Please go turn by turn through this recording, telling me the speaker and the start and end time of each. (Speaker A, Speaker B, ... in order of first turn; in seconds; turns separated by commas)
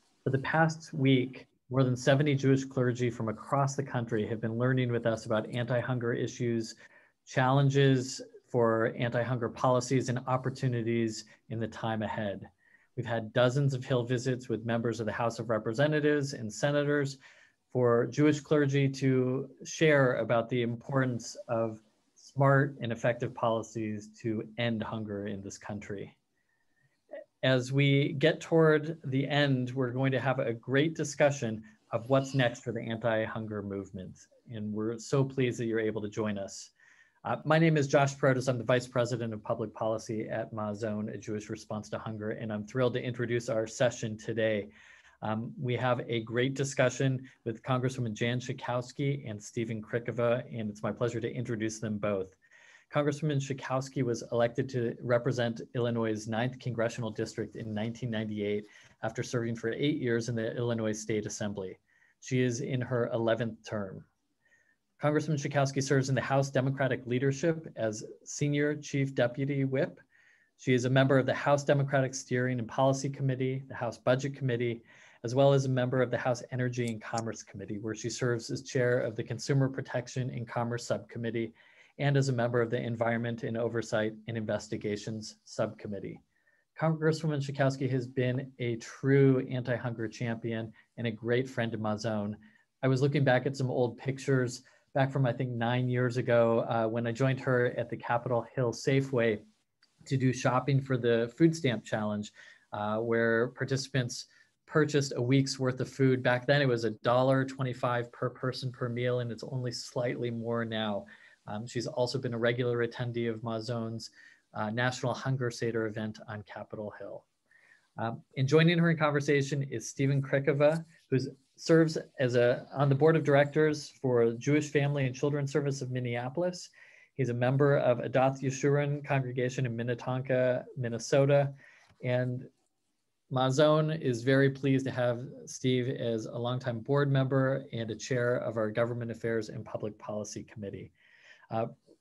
Speaker A: 0.2-6.8, Speaker A: 7.3-17.2, Speaker A: 17.7-26.1, Speaker A: 27.4-36.7, Speaker A: 37.2-44.7, Speaker A: 45.2-52.4, Speaker A: 52.9-64.0, Speaker A: 65.0-70.0, Speaker A: 70.6-86.2, Speaker A: 86.8-99.4, Speaker A: 100.0-117.2, Speaker A: 118.0-132.5, Speaker A: 133.3-140.9